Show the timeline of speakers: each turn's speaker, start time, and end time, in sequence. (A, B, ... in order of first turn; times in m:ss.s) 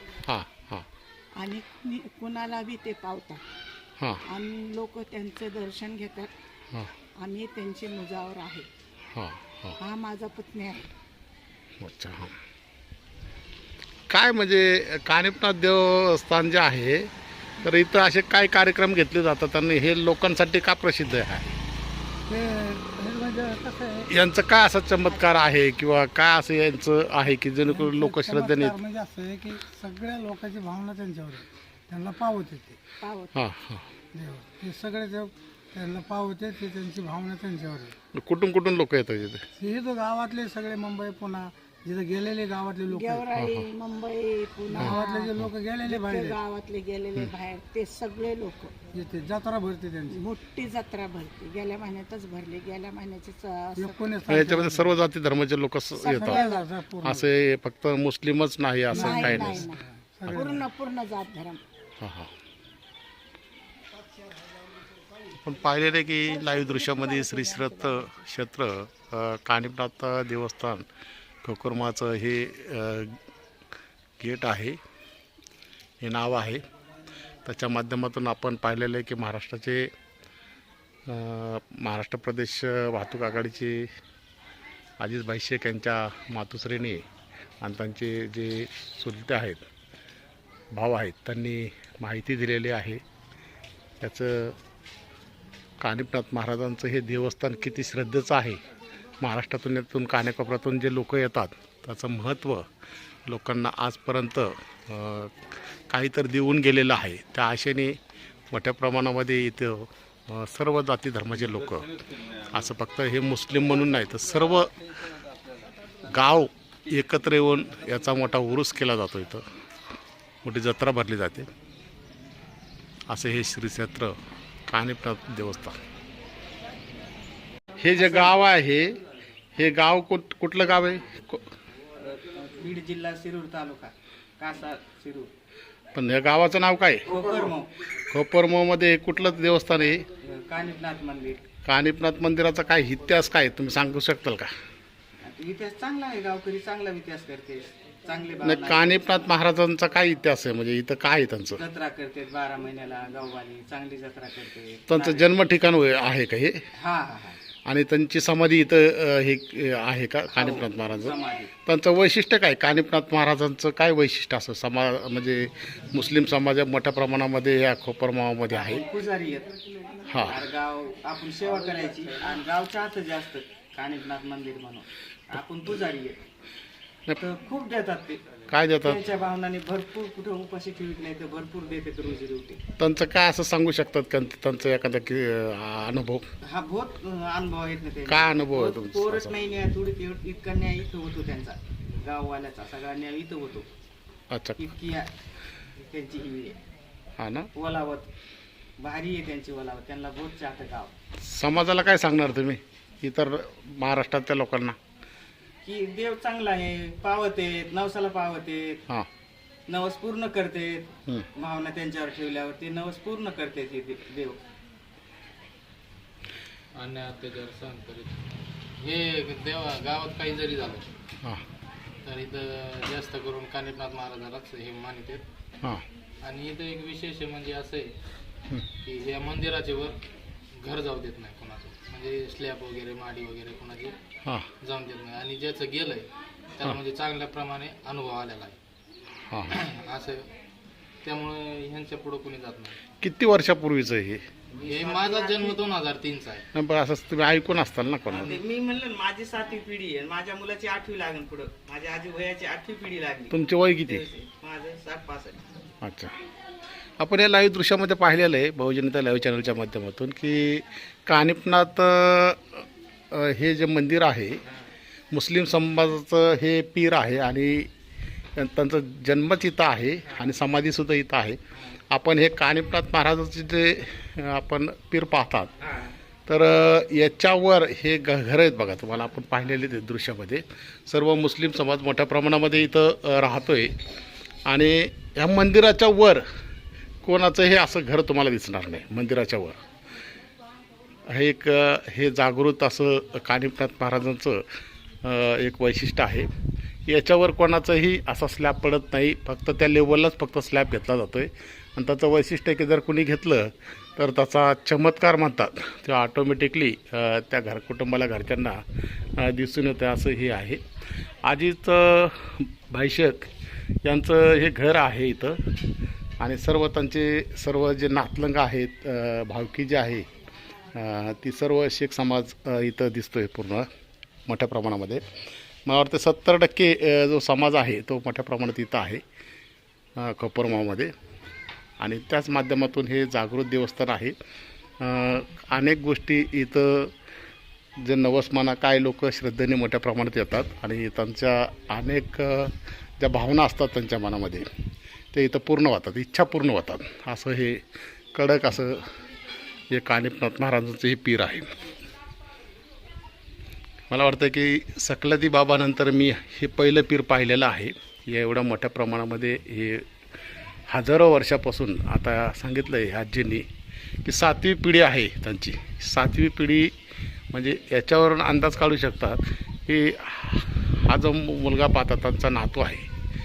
0:00.2-0:00.9 A
0:01.4-0:03.4 B
0:04.3-0:06.3 B
0:07.2-0:08.7 B
0:09.1-0:09.8 A
0:09.8-0:10.9 B
0:11.8-0:12.3 A
0:14.1-0:21.6 A
0:22.3-0:24.1 C
0:24.1-0:28.8 A
0:27.7-0:32.8 C
0:33.0-0:33.4 B
0:33.4-0:33.8 A
0:34.2-0:37.9 C
0:38.2-0:39.4 A
0:39.6-0:43.2 C
0:42.8-0:48.8 B
0:43.3-0:43.7 A
0:44.8-0:45.5 A
0:45.2-0:46.2 C
0:49.0-0:50.1 C
0:50.1-0:54.3 B
0:53.8-0:54.9 C
0:54.3-0:56.4 A
0:56.0-0:56.9 B
0:56.8-0:57.2 C
0:57.0-0:59.7 A
0:58.9-1:01.6 B
1:02.0-1:02.3 A
1:05.3-1:10.8 A
1:06.2-1:08.2 B
1:11.4-1:13.2 A
1:14.2-1:14.8 A
1:16.0-1:16.6 A
1:17.4-1:19.9 A
1:21.1-1:23.9 A
1:25.0-1:27.0 A
1:27.6-1:29.7 A
1:30.7-1:33.0 A
1:34.0-1:34.6 A
1:35.8-1:38.6 A
1:39.2-1:42.7 A
1:43.3-1:48.0 A
1:48.5-1:51.9 A
1:52.5-1:54.7 A
1:56.1-1:59.4 A
2:00.4-2:01.5 A
2:03.1-2:04.1 A
2:04.7-2:05.8 A
2:07.8-2:09.0 A
2:09.6-2:11.5 A
2:12.0-2:15.3 D
2:16.0-2:17.2 A
2:17.1-2:17.7 D
2:18.1-2:20.1 A
2:20.2-2:21.4 D
2:21.7-2:24.5 A
2:25.2-2:29.2 D
2:28.4-2:31.6 A
2:31.6-2:35.3 D
2:34.9-2:36.6 A
2:36.8-2:37.4 D
2:37.7-2:41.2 A
2:40.3-2:41.5 D
2:41.7-2:48.8 A
2:48.5-2:49.5 D
2:50.1-2:50.4 A
2:50.2-2:56.2 D
2:57.2-2:58.2 D
2:58.5-2:59.0 A
2:58.8-3:02.6 D
3:02.8-3:06.2 A
3:06.5-3:13.7 D
3:08.1-3:09.3 A
3:14.3-3:14.6 A
3:14.6-3:15.1 D
3:15.8-3:16.6 D
3:17.2-3:17.5 A
3:17.6-3:18.1 D
3:18.8-3:20.9 D
3:21.2-3:24.8 A
3:25.6-3:28.8 D
3:29.7-3:34.4 D
3:36.8-3:38.1 E
3:38.8-3:40.8 E
3:42.1-3:45.2 E
3:46.3-3:47.9 E
3:48.9-3:49.9 E
3:50.6-3:53.9 E
3:54.7-3:56.0 E
3:56.6-3:58.6 E
3:59.3-3:59.6 A
3:59.8-4:00.2 E
4:01.1-4:02.7 E
4:03.0-4:04.2 A
4:04.5-4:05.6 D
4:04.7-4:06.4 E
4:06.5-4:08.4 A
4:08.1-4:15.5 D
4:13.3-4:14.0 A
4:15.8-4:16.1 A
4:17.0-4:24.4 A
4:25.1-4:27.7 A
4:28.4-4:35.5 A
4:36.3-4:43.8 A
4:44.5-4:46.2 A
4:47.0-4:49.6 A
4:51.1-4:54.4 A
4:55.0-4:56.3 A
4:56.9-5:10.6 A
5:11.2-5:13.3 A
5:13.8-5:15.7 A
5:16.2-5:20.1 A
5:20.7-5:23.7 A
5:24.3-5:25.0 A
5:25.7-5:29.0 A
5:30.0-5:30.9 A
5:31.8-5:34.1 A
5:34.8-5:36.9 A
5:37.8-5:44.5 A
5:45.1-5:47.6 A
5:48.1-5:48.9 A
5:49.7-5:51.6 A
5:53.9-5:59.9 A
6:00.7-6:03.5 A
6:04.0-6:06.7 A
6:07.3-6:12.9 A